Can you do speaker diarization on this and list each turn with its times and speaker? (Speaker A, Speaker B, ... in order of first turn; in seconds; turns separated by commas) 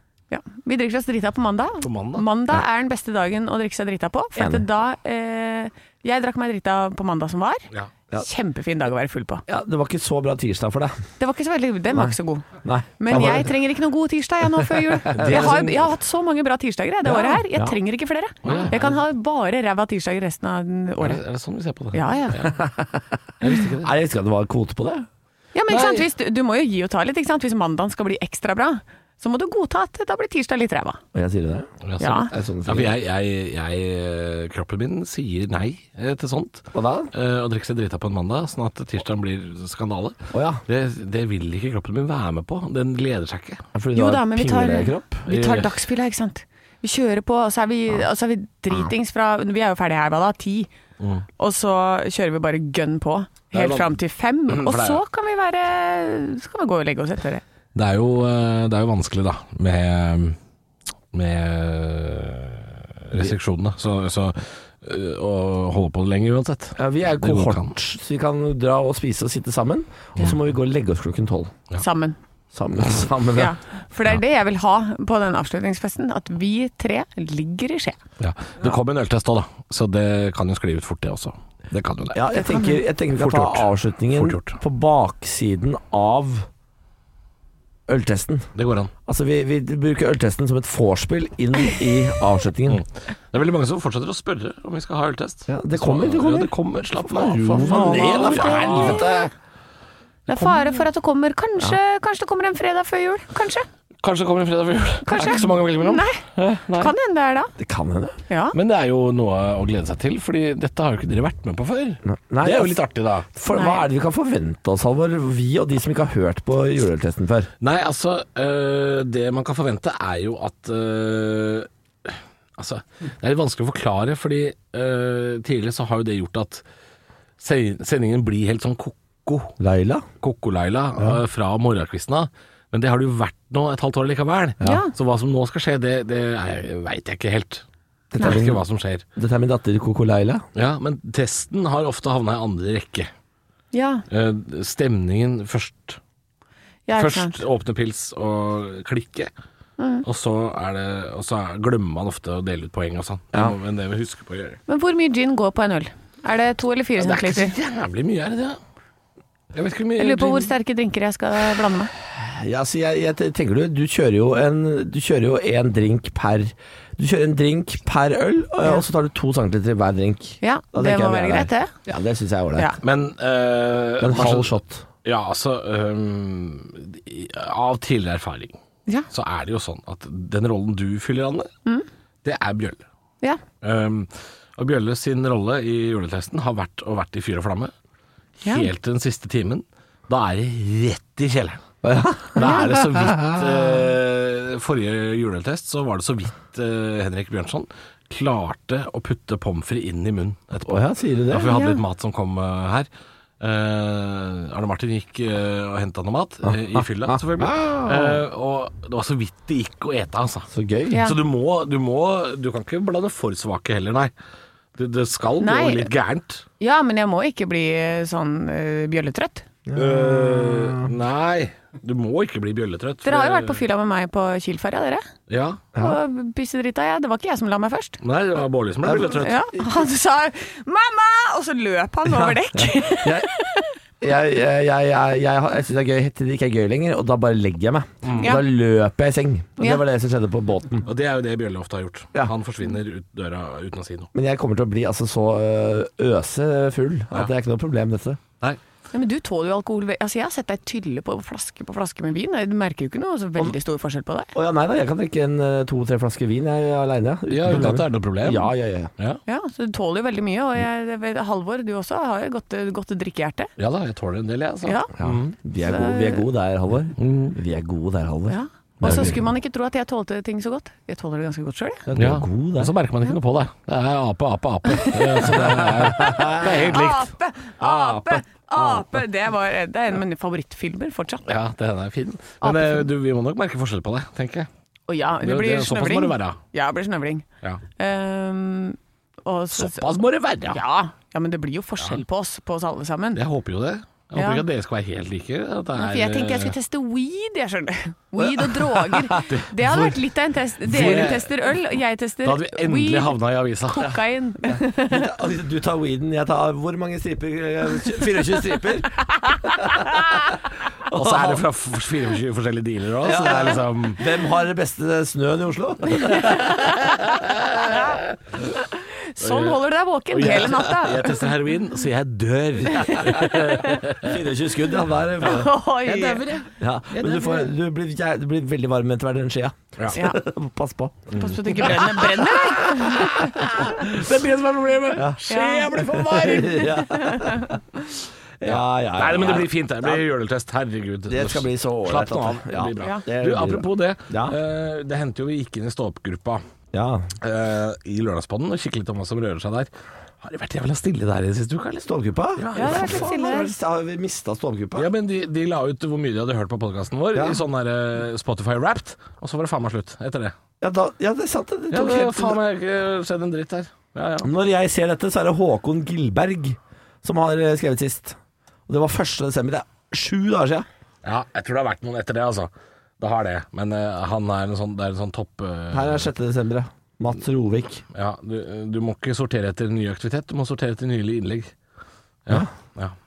Speaker A: 0.3-7.7, Speaker B: 1.8-2.2, Speaker C: 4.3-4.6, Speaker A: 8.2-9.4, Speaker C: 9.5-11.0, Speaker A: 11.2-12.5, Speaker C: 11.9-13.5, Speaker A: 13.0-21.2, Speaker C: 14.7-15.6, Speaker B: 15.1-15.9, Speaker C: 17.0-17.8, Speaker B: 18.4-18.8, Speaker C: 18.5-18.9, Speaker B: 21.0-22.6, Speaker A: 21.9-22.4, Speaker C: 22.4-25.1, Speaker B: 23.4-23.9, Speaker A: 25.5-31.0, Speaker B: 25.7-26.1, Speaker C: 31.1-31.7, Speaker B: 31.8-43.6, Speaker A: 32.0-32.3, Speaker C: 32.3-32.9, Speaker C: 36.7-37.1, Speaker C: 40.3-40.6, Speaker C: 43.7-45.2, Speaker A: 43.9-50.7, Speaker B: 45.3-45.8, Speaker B: 51.0-51.2, Speaker A: 51.4-57.4, Speaker B: 53.5-53.9, Speaker B: 54.5-55.0, Speaker B: 57.7-60.4, Speaker B: 61.1-67.7, Speaker C: 66.8-71.5, Speaker A: 71.8-72.2, Speaker C: 72.5-73.5, Speaker A: 73.3-78.0, Speaker B: 78.2-82.2, Speaker C: 82.1-86.5, Speaker A: 82.3-82.8, Speaker B: 83.1-84.6, Speaker C: 87.9-88.5, Speaker B: 88.5-88.9, Speaker C: 89.0-92.8, Speaker B: 92.7-99.3, Speaker C: 95.5-99.2, Speaker A: 97.5-99.2, Speaker A: 100.3-103.7, Speaker B: 104.0-106.9, Speaker A: 105.0-107.5, Speaker C: 107.6-108.2, Speaker A: 108.3-108.6, Speaker B: 108.5-113.3, Speaker C: 112.0-112.8, Speaker C: 113.3-117.5, Speaker A: 113.5-113.8, Speaker B: 117.6-126.6, Speaker B: 127.4-129.5, Speaker C: 129.6-130.1, Speaker B: 130.2-137.6, Speaker A: 134.6-134.9, Speaker C: 138.1-138.6, Speaker B: 138.2-139.0, Speaker C: 139.2-140.4, Speaker B: 140.5-143.1, Speaker A: 143.7-144.1, Speaker B: 144.1-146.0, Speaker A: 146.9-147.4, Speaker B: 146.9-149.3, Speaker A: 149.8-150.1, Speaker B: 150.0-154.6, Speaker A: 154.7-157.5, Speaker B: 157.0-158.6, Speaker B: 159.5-160.5, Speaker A: 160.0-161.9, Speaker C: 162.1-172.7, Speaker A: 170.4-171.7, Speaker B: 172.8-174.5, Speaker C: 174.0-174.8, Speaker B: 175.0-178.6, Speaker B: 179.1-181.5, Speaker B: 182.2-182.8, Speaker B: 183.6-187.7, Speaker B: 188.4-191.6, Speaker A: 188.4-188.7, Speaker C: 191.8-193.5, Speaker B: 192.3-202.9, Speaker C: 200.7-201.5, Speaker A: 201.4-201.8, Speaker B: 203.4-214.1, Speaker C: 206.4-208.2, Speaker C: 210.5-211.1, Speaker A: 210.9-211.2, Speaker B: 214.7-216.4, Speaker A: 215.4-215.9, Speaker A: 216.6-219.4, Speaker C: 219.7-220.9, Speaker B: 219.7-223.6, Speaker A: 223.0-225.0, Speaker B: 225.3-225.7, Speaker A: 225.8-228.0, Speaker B: 228.0-229.4, Speaker C: 228.8-229.1, Speaker A: 229.0-233.8, Speaker C: 232.1-233.3, Speaker C: 234.0-240.9, Speaker B: 238.0-238.4, Speaker B: 240.8-244.1, Speaker C: 244.1-248.2, Speaker A: 248.9-254.3, Speaker C: 254.3-258.9, Speaker B: 257.3-259.2, Speaker A: 259.3-263.5, Speaker B: 263.6-265.3, Speaker A: 264.6-264.9, Speaker C: 265.0-269.2, Speaker A: 265.6-266.2, Speaker B: 267.0-267.4, Speaker A: 268.3-271.9, Speaker B: 268.8-269.2, Speaker C: 271.9-272.7, Speaker B: 271.9-279.0, Speaker A: 274.7-281.3, Speaker C: 275.6-276.5, Speaker B: 281.2-284.5, Speaker A: 282.4-282.9, Speaker A: 284.9-287.2, Speaker B: 285.2-286.4, Speaker A: 287.8-293.2, Speaker B: 289.5-290.6, Speaker B: 293.1-296.6, Speaker A: 294.1-294.4, Speaker A: 295.7-305.1, Speaker C: 298.2-299.9, Speaker B: 299.3-299.5, Speaker B: 300.6-301.3, Speaker C: 300.7-301.1, Speaker B: 302.2-304.0, Speaker C: 304.4-311.4, Speaker B: 310.9-314.1, Speaker C: 313.0-316.9, Speaker A: 316.0-317.0, Speaker B: 316.8-318.2, Speaker A: 317.6-317.9, Speaker A: 318.6-321.2, Speaker B: 319.2-324.2, Speaker C: 320.2-320.7, Speaker A: 322.7-323.8, Speaker C: 322.8-325.5, Speaker A: 325.2-326.4, Speaker B: 325.8-327.5, Speaker C: 326.6-332.1, Speaker A: 329.9-330.2, Speaker B: 331.1-336.8, Speaker A: 331.1-333.4, Speaker C: 332.9-334.1, Speaker C: 334.9-337.6, Speaker A: 335.3-335.7, Speaker A: 336.9-337.5, Speaker C: 338.4-340.0, Speaker B: 338.4-346.4, Speaker C: 341.1-344.4, Speaker C: 346.7-347.1, Speaker B: 347.2-353.1, Speaker C: 351.8-354.9, Speaker A: 352.5-353.5, Speaker B: 354.8-360.3, Speaker C: 357.1-357.4, Speaker C: 360.6-362.4, Speaker B: 361.7-364.3, Speaker C: 364.2-368.2, Speaker C: 368.7-370.7, Speaker B: 371.0-376.1, Speaker C: 375.7-377.8, Speaker B: 377.9-381.5, Speaker B: 382.2-382.9